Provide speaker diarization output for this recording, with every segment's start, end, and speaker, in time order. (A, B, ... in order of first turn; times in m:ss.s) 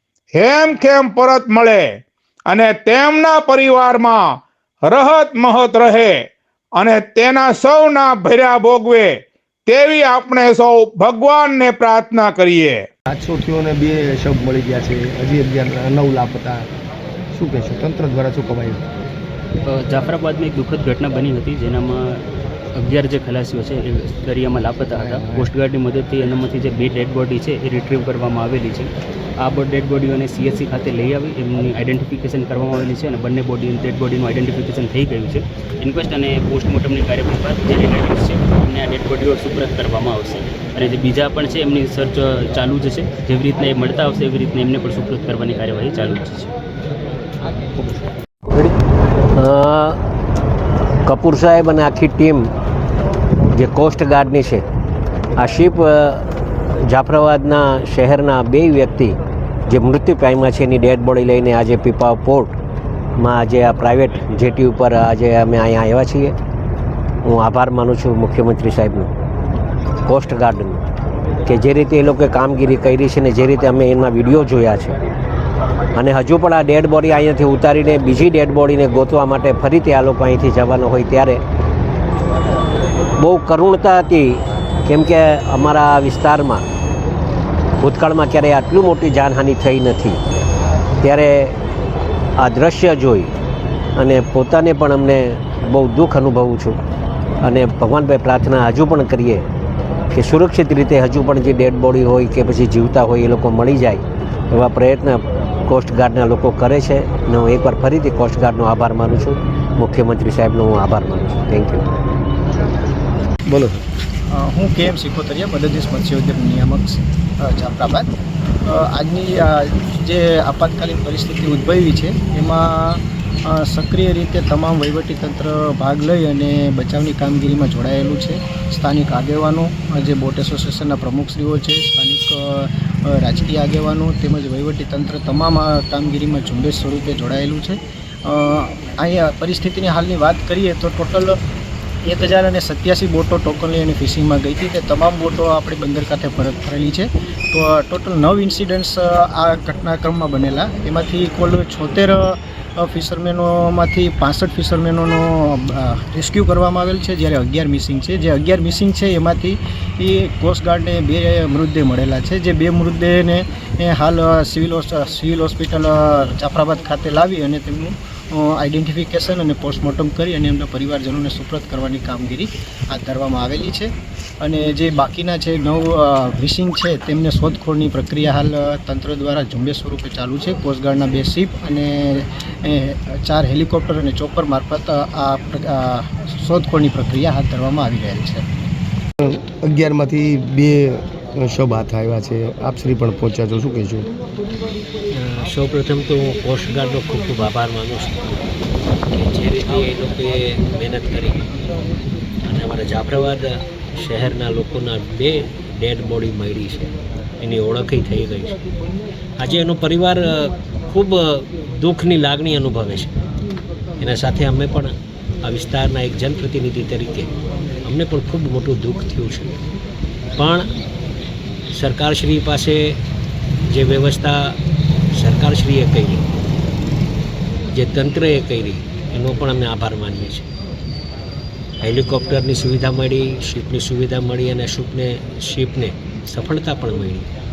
0:00.3-0:01.9 A
0:02.5-0:06.2 A
0:06.8-0:12.8 A
0:13.1-0:16.7 B
0:17.3-0:18.8 B
0:19.8-0:22.2 C
0:22.8-0:28.9 C
0:25.0-0:25.5 B
0:29.4-0:46.5 C
0:49.4-0:50.0 D
0:51.1-0:52.5 D
0:53.5-0:54.6 D
0:55.4-0:56.3 D
0:56.9-0:59.2 D
0:59.7-1:02.5 D
1:03.2-1:06.4 D
1:07.2-1:09.1 D
1:10.1-1:10.8 D
1:11.5-1:14.9 D
1:16.0-1:21.4 D
1:23.2-1:26.6 D
1:27.8-1:30.2 D
1:31.0-1:31.6 D
1:32.4-1:33.3 D
1:34.0-1:36.8 D
1:37.4-1:39.4 D
1:40.1-1:51.8 D
1:53.5-1:53.8 B
1:54.3-1:58.1 E
1:58.6-2:21.4 E
2:22.1-3:08.6 E
3:09.2-3:14.1 B
3:15.1-3:18.2 D
3:19.1-3:21.4 D
3:22.4-3:28.6 D
3:29.4-3:33.1 D
3:34.0-3:34.9 D
3:35.4-3:37.3 D
3:37.8-3:39.5 D
3:40.4-3:40.7 D
3:41.7-3:42.8 D
3:43.7-3:44.4 D
3:45.2-3:46.3 D
3:47.7-3:50.5 D
3:51.8-3:57.3 D